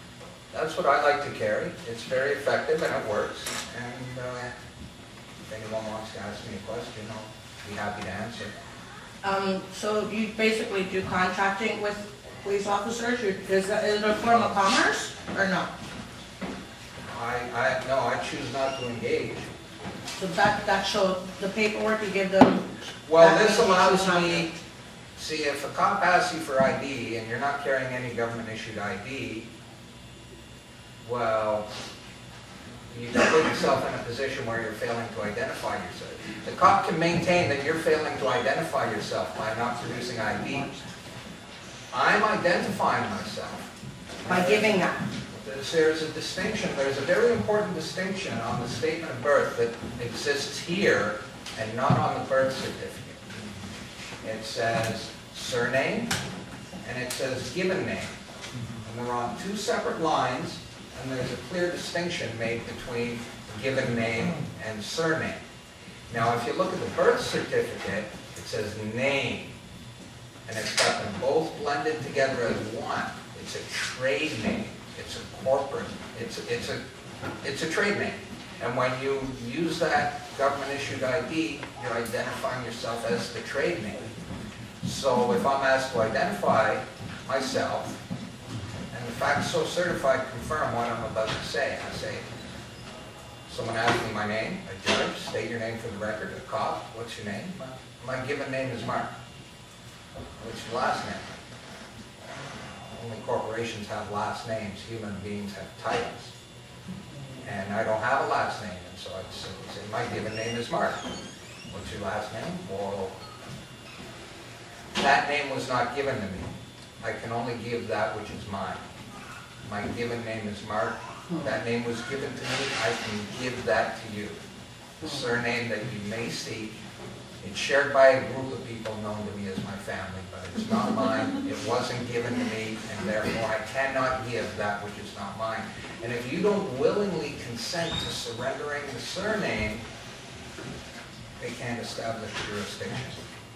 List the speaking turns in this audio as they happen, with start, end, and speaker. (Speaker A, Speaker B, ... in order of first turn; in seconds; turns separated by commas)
Speaker A: 0.5-4.5, Speaker A: 5.5-8.5, Speaker B: 9.2-15.7, Speaker A: 17.1-19.5, Speaker B: 20.2-22.6, Speaker A: 23.0-24.6, Speaker B: 23.1-24.5, Speaker A: 25.1-29.5, Speaker A: 31.0-31.7, Speaker A: 32.9-40.7, Speaker A: 41.9-43.7, Speaker A: 44.2-53.2, Speaker B: 44.2-45.0, Speaker A: 54.2-56.1, Speaker A: 56.8-58.1, Speaker A: 58.8-65.4, Speaker A: 66.1-69.5, Speaker A: 70.5-76.8, Speaker A: 77.4-84.1, Speaker A: 84.8-88.0, Speaker A: 88.9-92.2, Speaker A: 93.5-99.1, Speaker A: 100.4-101.3, Speaker A: 102.9-106.3, Speaker A: 107.4-111.0, Speaker A: 111.7-113.2, Speaker A: 114.9-118.8, Speaker A: 119.6-124.4, Speaker A: 125.0-126.7, Speaker A: 127.4-139.8, Speaker A: 141.4-143.2